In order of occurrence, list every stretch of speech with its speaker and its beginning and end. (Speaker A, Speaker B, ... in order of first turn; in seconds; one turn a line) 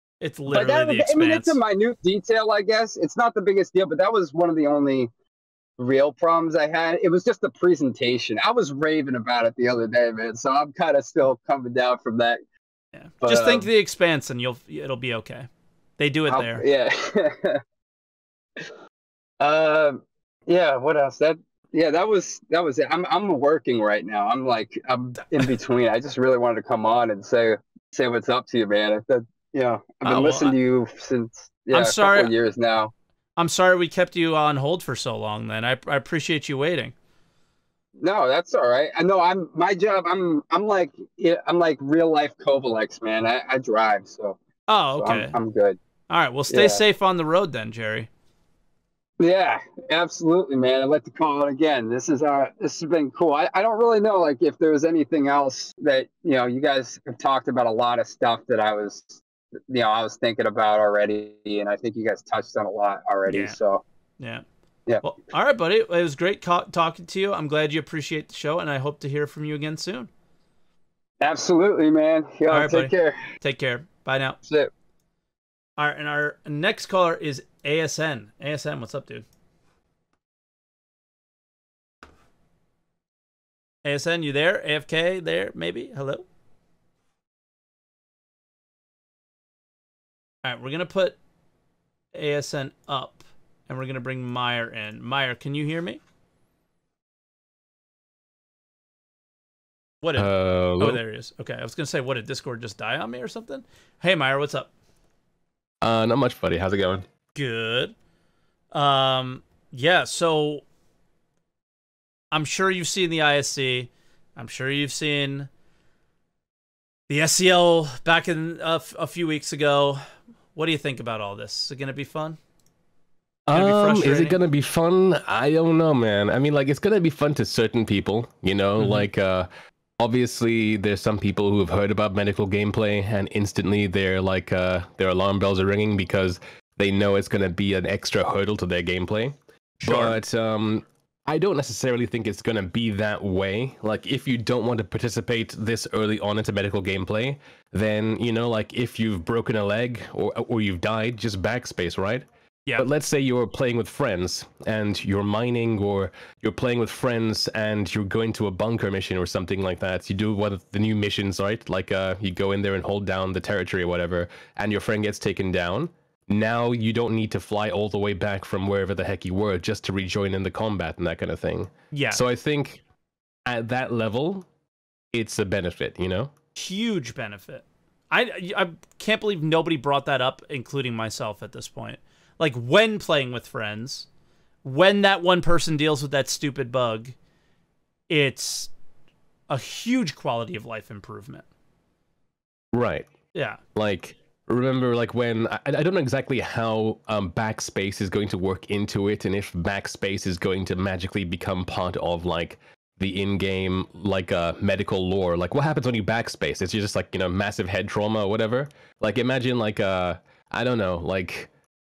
Speaker A: 0.2-1.6
Speaker B: 0.5-5.1
Speaker B: 5.8-12.4
Speaker A: 12.9-15.5
Speaker B: 13.2-13.7
Speaker A: 16.0-16.6
Speaker B: 16.3-17.6
Speaker B: 19.4-32.9
Speaker A: 30.0-30.6
Speaker A: 31.7-32.3
Speaker A: 33.4-36.9
Speaker B: 38.0-44.4
Speaker A: 44.7-45.4
Speaker B: 45.0-45.8
Speaker A: 46.1-48.1
Speaker B: 46.5-46.8
Speaker B: 49.2-63.8
Speaker A: 63.3-63.6
Speaker A: 65.0-70.1
Speaker B: 71.2-73.2
Speaker A: 72.5-74.4
Speaker A: 75.8-79.2
Speaker A: 83.8-86.3
Speaker A: 90.4-91.2
Speaker A: 92.1-96.0
Speaker A: 100.0-104.7
Speaker C: 100.2-101.0
Speaker C: 105.8-107.1
Speaker A: 107.3-107.9
Speaker A: 108.7-110.6
Speaker A: 112.3-115.5
Speaker A: 117.1-120.0
Speaker A: 120.5-122.4
Speaker C: 123.5-152.3
Speaker A: 123.5-124.4
Speaker A: 128.8-129.1
Speaker A: 139.8-140.2
Speaker C: 152.8-172.8
Speaker A: 171.9-172.2
Speaker C: 173.5-174.5
Speaker C: 175.1-176.3
Speaker A: 176.6-184.1
Speaker A: 184.6-187.2
Speaker A: 188.1-188.7
Speaker A: 189.5-191.4
Speaker C: 192.7-193.1
Speaker A: 193.3-193.6
Speaker C: 193.8-211.5